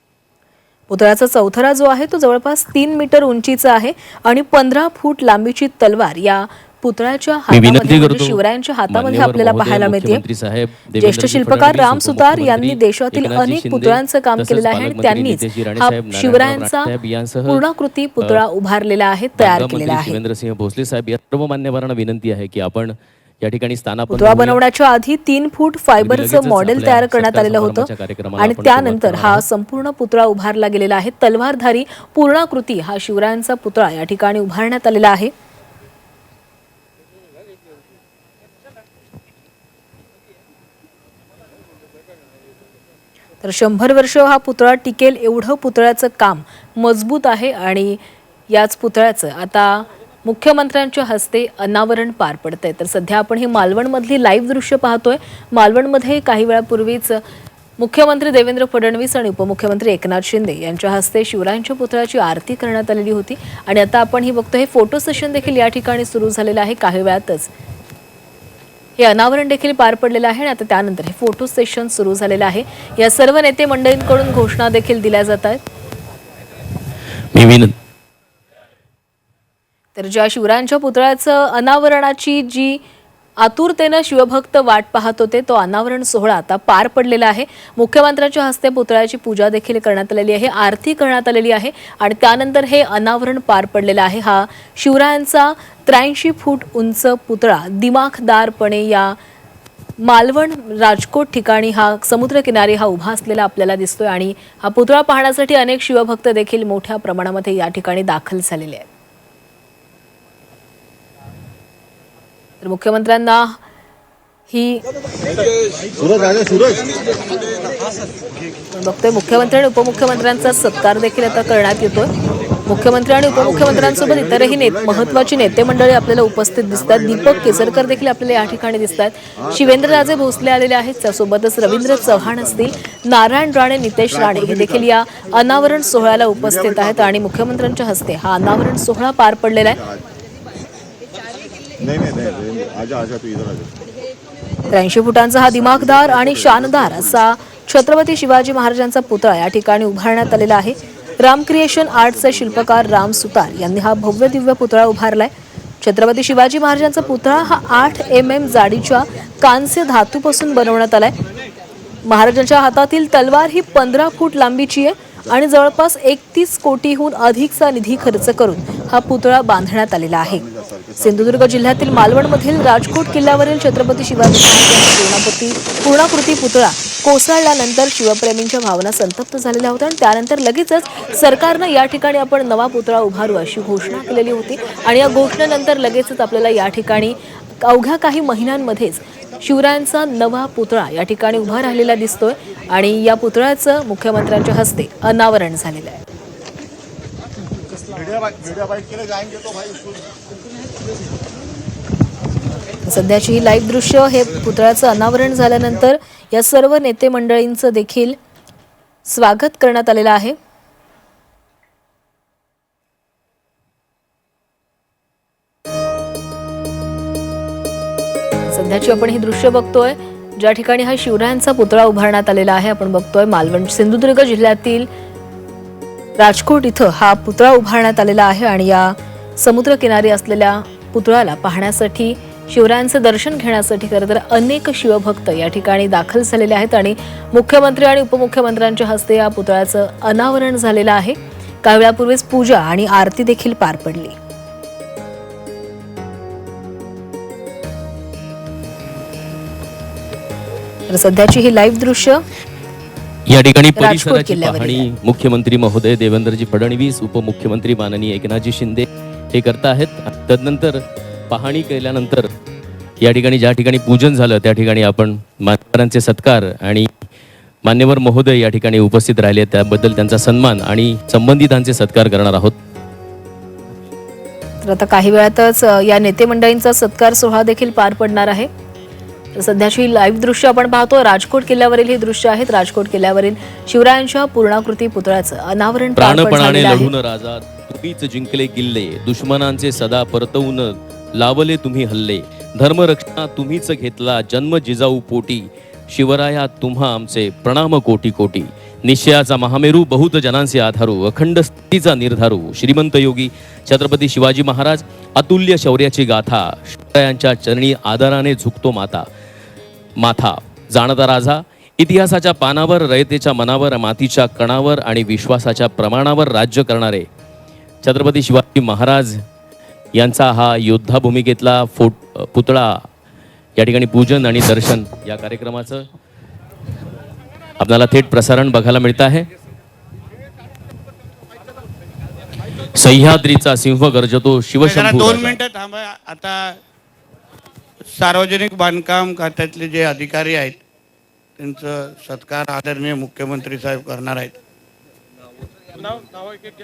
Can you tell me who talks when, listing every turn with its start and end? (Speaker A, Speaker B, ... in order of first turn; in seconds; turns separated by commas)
Speaker A: 0.9-10.2, Speaker B: 7.5-17.6, Speaker A: 11.0-16.9, Speaker A: 17.5-20.2, Speaker B: 19.4-24.6, Speaker A: 24.1-35.3, Speaker B: 26.0-29.4, Speaker A: 43.4-57.2, Speaker A: 57.8-67.5, Speaker A: 69.0-75.6, Speaker B: 77.3-77.7, Speaker A: 80.0-82.8, Speaker A: 83.4-99.2, Speaker A: 100.0-108.9, Speaker A: 112.6-113.6, Speaker A: 114.5-114.8, Speaker A: 118.8-122.1, Speaker A: 122.7-139.8, Speaker A: 144.7-161.1, Speaker A: 162.1-170.4, Speaker A: 171.0-196.0, Speaker A: 202.9-208.2, Speaker A: 209.1-210.4, Speaker A: 218.5-224.9, Speaker A: 226.2-244.2, Speaker A: 250.9-252.2, Speaker B: 253.3-262.3, Speaker A: 253.8-254.9, Speaker B: 263.0-266.9, Speaker B: 267.6-272.6, Speaker A: 274.6-278.5, Speaker A: 279.4-286.9, Speaker B: 286.0-309.1, Speaker B: 310.0-317.1, Speaker B: 317.8-319.2, Speaker B: 319.9-322.8, Speaker B: 323.6-325.9, Speaker B: 327.6-329.3, Speaker B: 332.8-335.4, Speaker C: 334.6-336.6, Speaker C: 337.9-340.6, Speaker C: 341.4-344.4